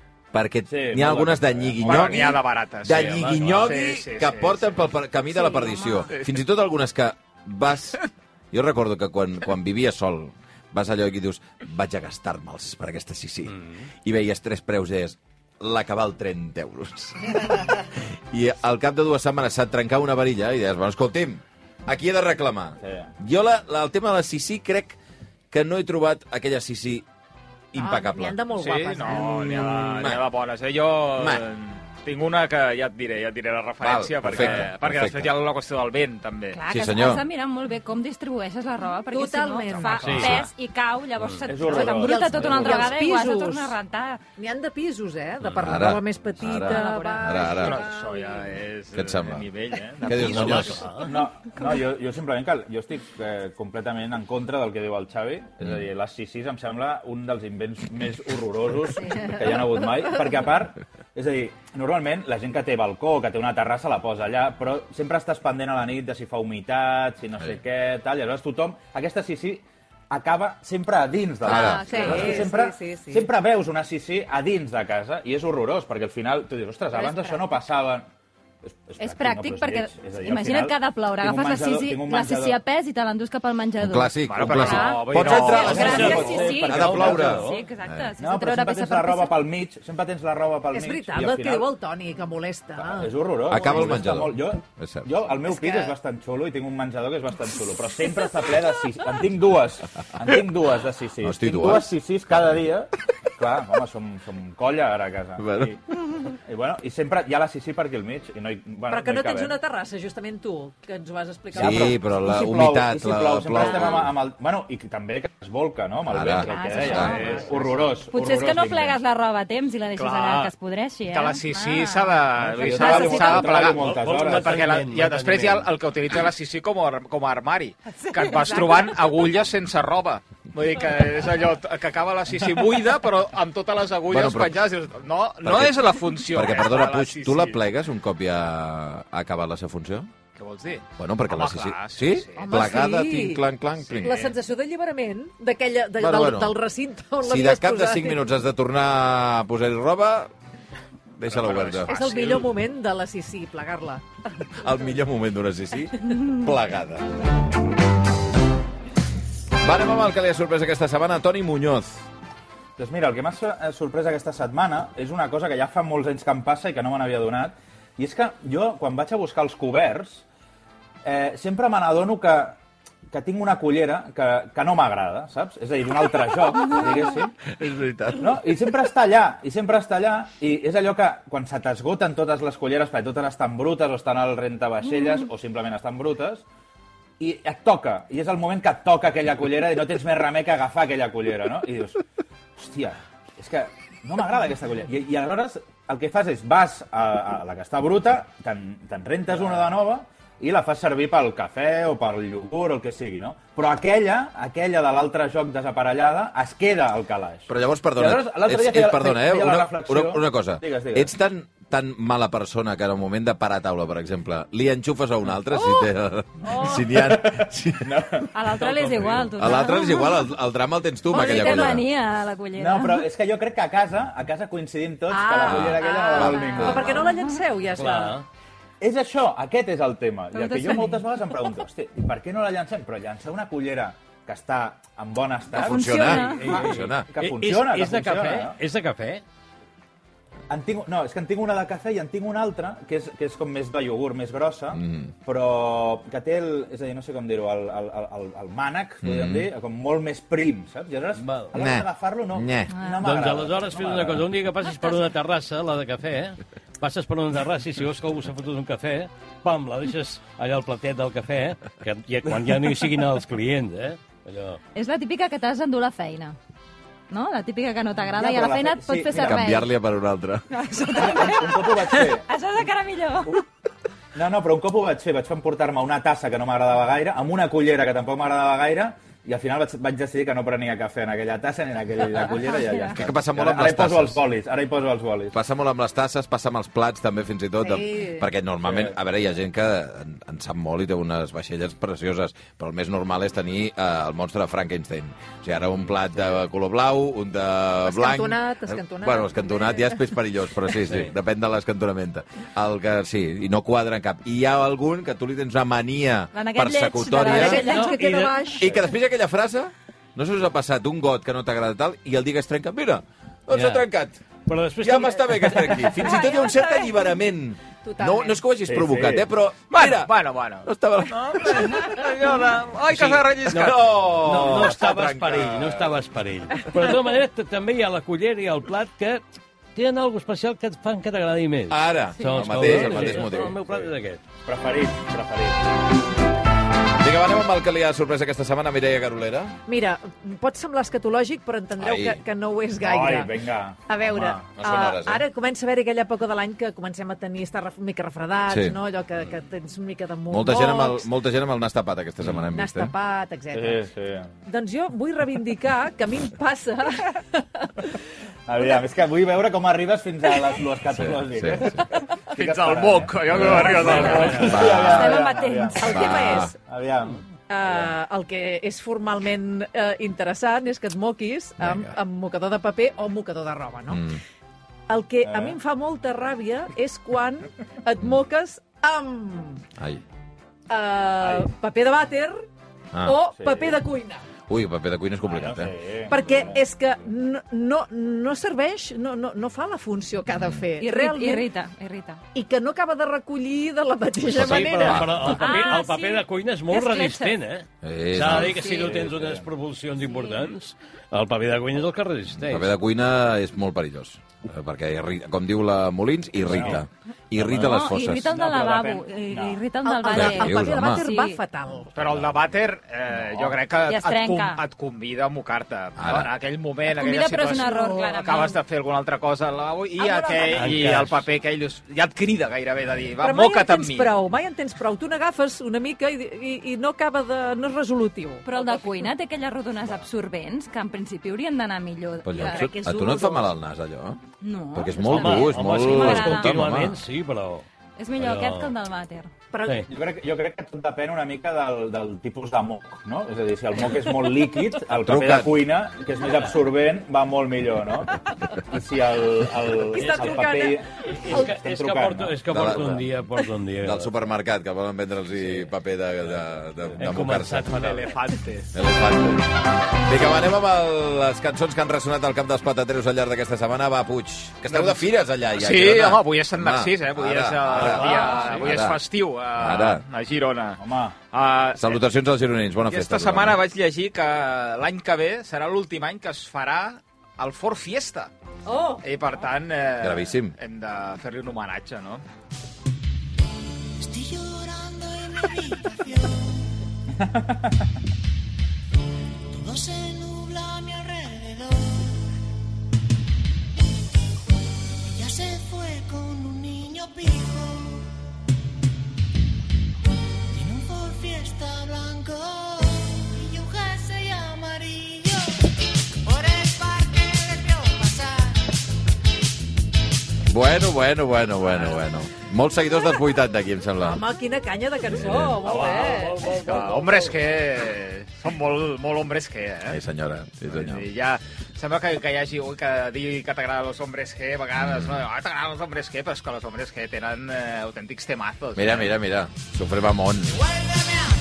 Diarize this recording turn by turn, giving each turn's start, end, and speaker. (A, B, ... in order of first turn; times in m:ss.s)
0:00.3-0:08.0 A
0:00.7-0:02.4 B
0:01.8-0:04.8 C
0:02.9-0:03.8 D
0:05.4-0:06.1 E
0:08.5-0:25.0 A
0:13.5-0:13.9 D
0:22.8-0:23.1 B
0:25.5-0:27.1 A
0:27.7-0:28.4 A
0:27.8-0:29.6 F
0:28.5-0:36.6 C
0:29.1-0:30.2 A
0:31.2-0:31.4 A
0:33.8-0:35.4 A
0:36.5-0:44.2 E
0:36.7-0:37.2 A
0:39.1-0:40.2 F
0:39.7-0:40.4 C
0:40.0-0:40.4 D
0:41.2-0:41.5 D
0:41.5-0:43.0 B
0:41.6-0:43.8 F
0:44.4-0:48.5 F
0:45.6-0:47.8 A
0:46.6-0:47.6 E
0:47.6-0:50.8 C
0:48.9-0:49.5 A
0:50.0-0:50.8 A
0:50.1-0:51.1 D
0:51.0-1:18.1 B
1:11.4-1:12.3 A
1:11.5-1:13.3 F
1:16.9-1:17.4 F
1:18.6-1:22.6 B
1:19.0-1:29.4 E
1:23.8-1:28.1 A
1:24.3-1:26.1 C
1:25.3-1:27.5 B
1:25.5-1:25.8 F
1:25.7-1:27.6 D
1:28.2-1:31.7 B
1:30.7-1:33.7 F
1:32.8-1:49.6 B
1:33.5-1:35.1 A
1:35.4-1:36.0 F
1:41.2-1:41.9 A
1:45.4-1:45.8 A
1:48.9-1:52.0 F
1:51.5-1:54.1 A
1:51.5-1:59.0 B
1:56.1-1:57.2 A
1:56.5-1:57.4 E
1:56.6-1:57.6 F
1:58.1-2:03.7 E
2:00.0-2:00.5 C
2:01.1-2:17.6 C
2:02.4-2:04.6 B
2:03.6-2:05.7 D
2:08.0-2:08.9 E
2:14.1-2:14.6 A
2:15.4-2:20.1 A
2:20.4-2:22.8 C
2:21.0-2:24.2 A
2:22.4-2:23.5 F
2:23.8-2:24.4 C
2:24.0-2:28.2 F
2:26.0-2:26.6 A
2:27.2-2:30.3 A
2:31.2-2:32.0 A
2:31.3-2:32.5 C
2:31.9-2:34.0 F
2:34.6-2:37.1 A
2:39.6-2:42.0 A
2:42.8-2:50.2 B
2:51.0-2:52.6 B
2:53.1-2:57.4 B
2:57.5-2:58.4 A
2:58.2-3:06.4 B
3:07.2-3:12.0 B
3:12.6-3:31.1 B
3:27.5-3:38.0 A
3:36.4-3:36.8 F
3:36.6-3:39.3 B
3:38.3-3:40.3 E
3:39.3-3:41.9 A
3:41.1-3:43.1 E
3:41.1-3:41.8 F
3:42.6-3:47.1 B
3:45.1-3:48.2 F
3:45.5-3:47.0 A
3:46.8-3:47.4 E
3:47.8-3:48.2 D
3:48.8-3:58.6 B
3:50.3-3:51.3 E
3:55.5-3:57.1 A
3:55.6-3:56.6 E
3:56.2-3:59.2 D
4:00.5-4:14.2 B
4:04.7-4:05.1 A
4:09.0-4:09.5 A
4:11.2-4:11.5 D
4:11.5-4:12.8 A
4:12.7-4:13.1 E
4:13.0-4:24.6 D
4:24.8-4:26.4 E
4:27.1-4:29.7 E
4:28.0-4:29.6 B
4:29.1-4:30.5 A
4:30.5-4:33.4 E
4:30.9-4:32.3 B
4:34.2-4:45.4 B
4:42.5-4:42.8 E
4:42.9-4:44.2 A
4:45.3-5:07.6 A
4:47.6-4:48.3 F
4:48.6-4:49.0 B
4:57.9-5:00.0 F
5:00.8-5:01.1 D
5:06.3-5:08.3 E
5:07.2-5:08.8 F
5:07.4-5:08.4 D
5:08.6-5:14.2 A
5:13.5-5:13.9 D
5:14.5-5:16.1 D
5:14.8-5:20.1 A
5:16.0-5:16.9 F
5:17.8-5:18.4 F
5:18.6-5:19.3 B
5:19.7-5:25.8 C
5:20.6-5:22.0 A
5:22.9-5:29.2 D
5:23.5-5:25.1 A
5:29.8-5:34.2 D
5:31.7-5:33.6 A
5:32.6-5:33.9 B
5:34.5-5:35.7 B
5:37.0-5:39.6 A
5:39.7-5:43.3 F
5:41.8-5:42.2 A
5:42.8-5:44.5 B
5:43.9-5:51.1 F
5:44.6-5:45.2 A
5:48.5-5:48.8 A
5:50.3-5:52.9 A
5:52.5-5:53.9 F
5:53.5-5:54.3 B
5:54.5-5:57.7 F
5:58.5-6:07.9 B
6:00.9-6:01.8 A
6:02.4-6:04.6 C
6:03.3-6:03.7 A
6:03.5-6:04.3 F
6:03.8-6:05.8 E
6:03.9-6:04.5 D
6:04.4-6:05.2 A
6:04.9-6:06.6 F
6:05.8-6:06.5 A
6:07.5-6:14.1 F
6:11.6-6:12.0 A
6:13.9-6:14.2 A
6:14.9-6:19.6 F
6:15.2-6:15.6 B
6:19.8-6:20.0 A
6:20.7-6:22.4 F
6:21.2-6:21.5 B
6:22.9-6:23.2 A
6:23.0-6:24.2 F
6:23.4-6:23.8 B
6:24.5-6:25.7 A
6:25.2-6:26.6 B
6:26.1-6:31.5 F
6:30.3-6:30.6 A
6:30.8-6:32.2 E
6:32.3-6:35.1 F
6:34.3-6:42.7 D
6:34.3-6:35.4 A
6:35.2-6:37.4 E
6:37.8-6:38.6 A
6:38.5-6:39.5 B
6:42.4-6:48.3 A
6:46.4-6:46.8 B
6:47.6-6:51.4 E
6:48.1-6:49.6 B
6:49.8-6:52.0 F
6:50.1-6:51.0 A
6:52.0-7:04.2 C
6:53.2-6:53.6 B
6:53.9-6:54.6 E
6:56.0-6:56.3 A
6:56.9-6:58.6 E
7:00.0-7:00.8 F
7:00.5-7:01.2 D
7:03.2-7:09.1 F
7:08.4-7:12.8 E
7:12.2-7:14.2 A
7:12.3-7:13.5 F
7:14.4-7:16.7 E
7:14.7-7:17.0 A
7:15.1-7:17.7 D
7:18.0-7:19.3 E
7:18.2-7:18.7 D
7:19.5-7:19.9 F
7:19.9-7:33.0 B
7:24.9-7:25.7 A
7:29.9-7:31.5 F
7:30.0-7:30.4 D
7:31.1-7:34.1 D
7:32.5-7:33.3 A
7:33.8-7:37.7 A
7:35.4-7:35.7 D
7:37.0-7:38.2 D
7:37.7-7:38.8 C
7:38.7-7:49.0 A
7:44.7-7:50.8 C
7:47.7-7:48.7 D
7:49.6-7:50.0 A
7:50.8-7:51.2 B
7:51.3-7:52.0 C
7:51.8-7:53.6 A
7:52.9-7:58.3 C
7:58.7-7:59.0 F
7:59.0-8:02.2 C
8:00.0-8:00.5 A
8:04.0-8:06.7 G
8:07.2-8:07.7 B
8:09.5-8:12.2 G
8:15.1-8:18.1 G
8:20.5-8:25.6 G
8:26.3-8:28.5 G
8:30.5-8:34.2 A
8:34.0-8:36.5 F
8:35.1-8:35.6 A
8:35.6-8:37.4 D
8:36.5-8:40.0 C
8:39.9-8:41.1 A
8:40.7-8:49.1 C
8:44.8-8:45.2 A
8:48.8-8:50.6 A